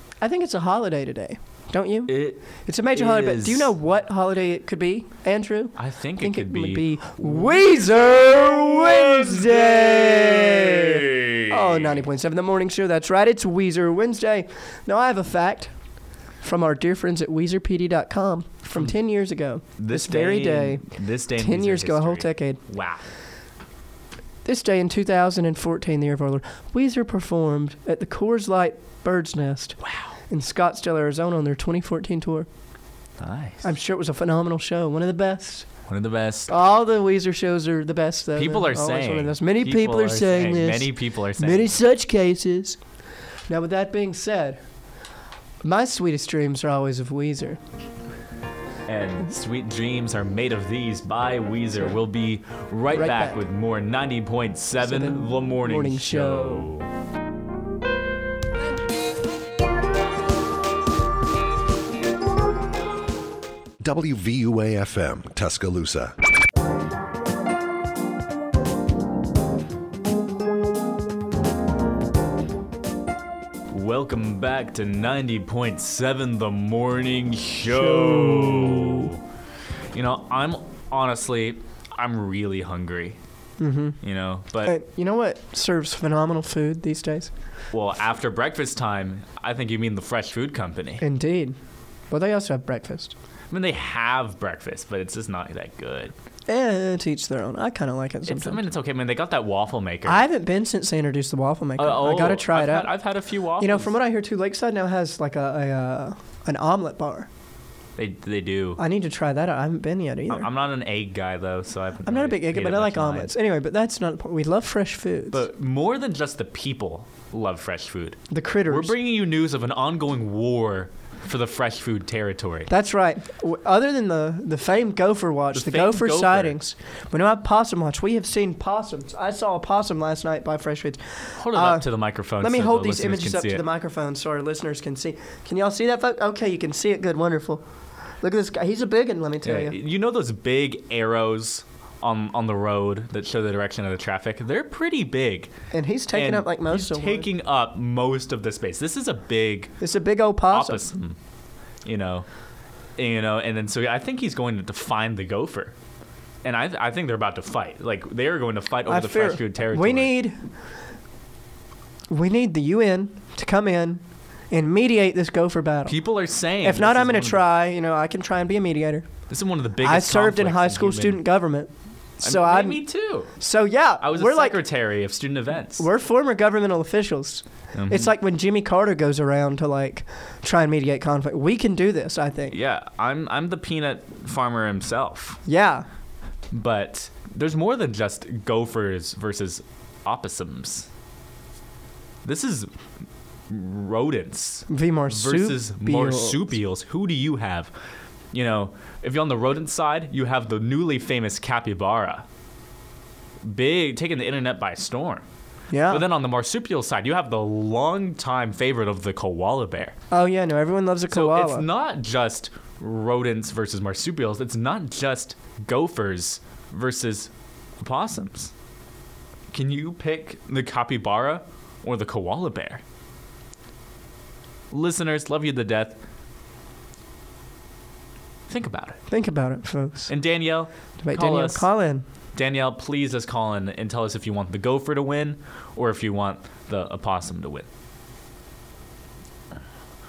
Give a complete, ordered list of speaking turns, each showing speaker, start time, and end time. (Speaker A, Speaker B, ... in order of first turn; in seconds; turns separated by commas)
Speaker A: 0.2-15.7, Speaker B: 2.1-2.4, Speaker B: 2.9-3.7, Speaker B: 5.8-12.0, Speaker A: 16.4-22.6, Speaker B: 19.8-23.1, Speaker A: 24.4-29.8, Speaker B: 29.8-30.1, Speaker A: 30.3-32.5, Speaker B: 33.2-33.7, Speaker A: 33.6-35.7, Speaker B: 35.9-36.5, Speaker A: 36.5-42.8, Speaker B: 38.4-41.8, Speaker A: 43.5-44.6, Speaker A: 45.6-47.6, Speaker B: 48.9-56.9, Speaker A: 52.9-53.4, Speaker A: 54.8-56.7, Speaker C: 63.8-66.1, Speaker B: 73.7-79.2, Speaker A: 77.6-79.1, Speaker B: 79.9-83.2, Speaker A: 83.6-84.0, Speaker B: 84.0-84.7, Speaker A: 84.6-87.3, Speaker B: 87.7-91.0, Speaker A: 91.0-91.6, Speaker A: 92.1-93.1, Speaker B: 93.5-96.1, Speaker A: 96.5-98.7, Speaker B: 98.2-100.2, Speaker A: 100.0-102.9, Speaker B: 101.8-103.9, Speaker A: 103.6-107.3, Speaker B: 108.0-108.8, Speaker A: 108.8-110.5, Speaker B: 110.3-113.3, Speaker A: 112.0-115.4, Speaker B: 115.3-122.7, Speaker A: 118.3-118.9, Speaker A: 122.7-131.8, Speaker B: 125.5-126.5, Speaker B: 131.4-133.6, Speaker A: 132.4-137.6, Speaker A: 138.2-139.8, Speaker B: 139.4-145.5, Speaker A: 145.7-147.3, Speaker B: 146.1-149.7, Speaker A: 149.8-150.8, Speaker B: 150.5-151.2, Speaker B: 151.8-152.2, Speaker B: 153.0-155.7, Speaker B: 156.4-160.1, Speaker A: 158.9-160.4, Speaker A: 162.1-165.9, Speaker B: 165.9-167.4, Speaker A: 166.6-169.1, Speaker B: 169.3-171.2, Speaker A: 169.8-172.8, Speaker B: 172.2-173.3, Speaker A: 173.4-174.6, Speaker B: 174.0-175.8, Speaker A: 175.8-182.6, Speaker B: 177.7-178.1, Speaker B: 182.5-185.4, Speaker A: 185.4-185.8, Speaker B: 186.5-190.9, Speaker B: 192.2-192.7, Speaker B: 193.5-197.7, Speaker A: 194.7-196.5, Speaker B: 198.3-202.2, Speaker B: 203.4-205.2, Speaker A: 205.7-206.0, Speaker B: 205.9-209.9, Speaker A: 210.1-211.6, Speaker B: 211.1-217.3, Speaker B: 217.8-218.5, Speaker B: 219.5-222.8, Speaker B: 224.7-226.0, Speaker B: 228.5-229.0, Speaker A: 229.1-230.1, Speaker B: 230.1-231.7, Speaker A: 231.0-232.0, Speaker B: 232.3-237.7